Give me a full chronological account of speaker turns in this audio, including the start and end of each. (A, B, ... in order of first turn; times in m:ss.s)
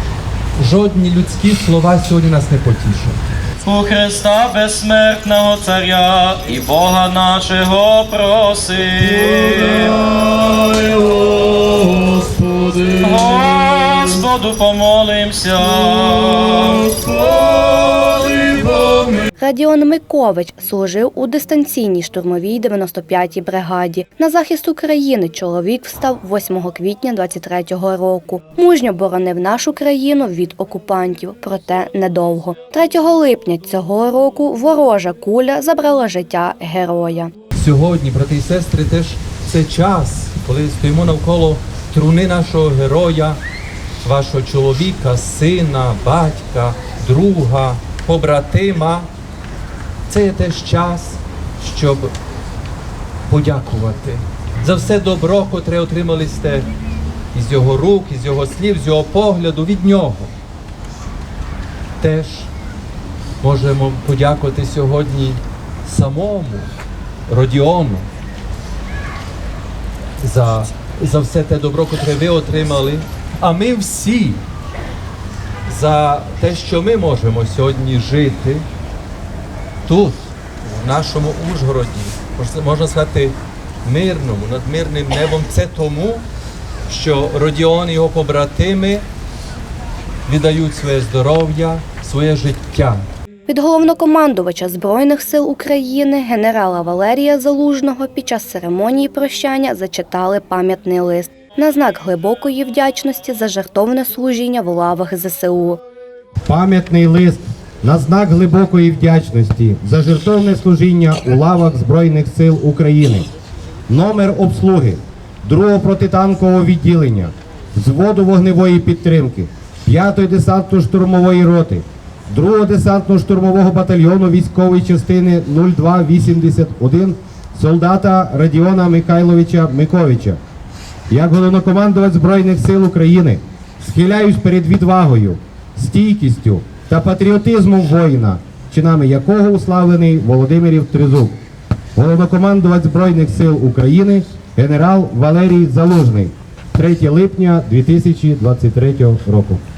0:00.6-0:03.3 A
0:03.6-0:19.2 B
0:19.4-0:37.3 C
0:37.6-0:43.4 A
0:44.0-0:49.1 A
0:50.1-0:52.1 A
0:53.3-0:56.7 A
0:57.3-1:00.3 A
1:02.0-1:02.5 A
1:03.4-1:06.7 A
1:07.3-1:08.1 A
1:10.2-1:14.4 A
1:15.7-1:18.6 A
1:19.8-1:26.2 A
1:26.9-1:29.0 A
1:30.3-1:33.0 A
1:33.5-1:45.8 C
1:46.5-1:53.3 D
1:53.9-2:10.4 D
2:11.1-2:21.4 D
2:22.0-2:29.6 D